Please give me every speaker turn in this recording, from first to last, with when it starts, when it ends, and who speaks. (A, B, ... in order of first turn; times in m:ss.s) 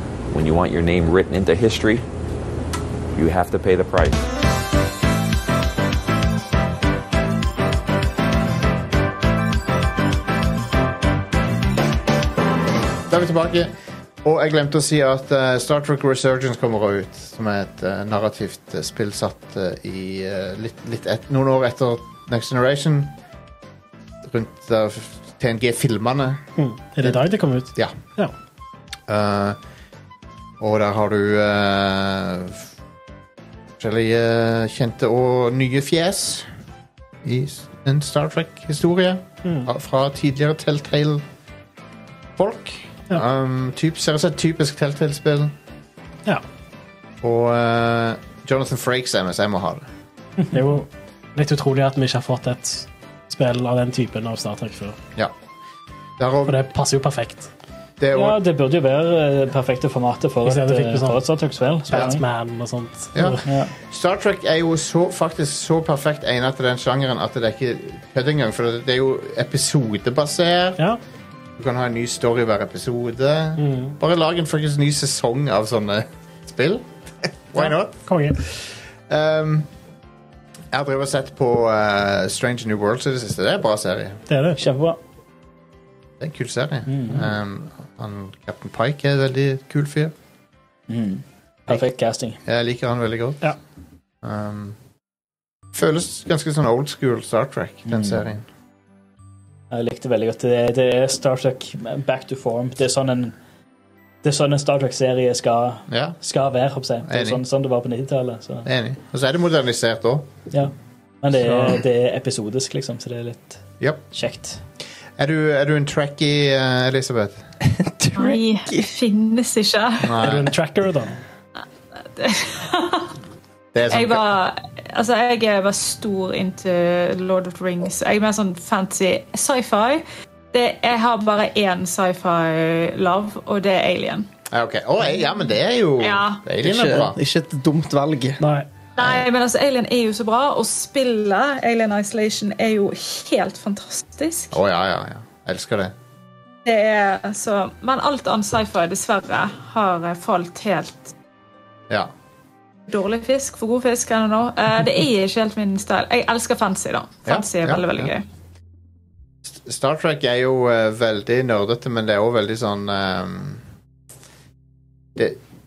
0:00.3-0:02.1 A
0:03.1-0:04.3 A
0:13.1-0:13.7 B
0:14.2-0:23.2 B
0:24.2-0:26.4 B
0:26.6-0:28.3 C
0:29.1-0:29.6 B
0:30.6-0:32.6 B
0:33.8-0:36.5 B
0:37.2-0:41.2 B
0:42.4-0:45.5 B
0:47.2-0:49.8 B
0:50.5-0:55.0 C
0:56.2-0:56.6 B
0:56.4-0:57.5 C
0:58.0-0:58.4 B
0:58.1-1:02.2 D
1:00.4-1:01.2 C
1:01.9-1:03.5 C
1:01.9-1:02.2 B
1:03.2-1:10.8 B
1:03.4-1:03.7 D
1:11.6-1:19.7 B
1:13.6-1:14.0 C
1:17.6-1:18.4 C
1:20.7-1:24.2 B
1:24.3-1:24.6 C
1:24.6-1:25.0 D
1:26.2-1:30.1 B
1:26.9-1:27.3 D
1:30.9-1:32.4 D
1:32.4-1:33.5 B
1:34.2-1:34.8 B
1:35.7-1:38.4 B
1:37.9-1:38.2 D
1:39.7-1:43.4 D
1:44.2-1:48.7 D
1:45.9-1:46.2 B
1:47.1-1:47.4 B
1:48.6-1:50.3 B
1:50.5-1:54.6 D
1:55.2-1:57.4 B
1:57.6-1:58.9 E
1:58.2-2:00.2 F
2:00.0-2:00.5 B
2:00.2-2:01.2 C
2:02.2-2:03.2 F
2:03.7-2:04.3 B
2:03.9-2:14.3 F
2:14.5-2:17.2 B
2:16.0-2:16.4 F
2:16.6-2:18.4 E
2:18.4-2:18.7 C
2:19.0-2:19.2 B
2:19.0-2:24.6 F
2:24.5-2:25.9 B
2:26.6-2:31.1 F
2:32.9-2:38.2 F
2:37.3-2:38.1 B
2:39.4-2:43.6 B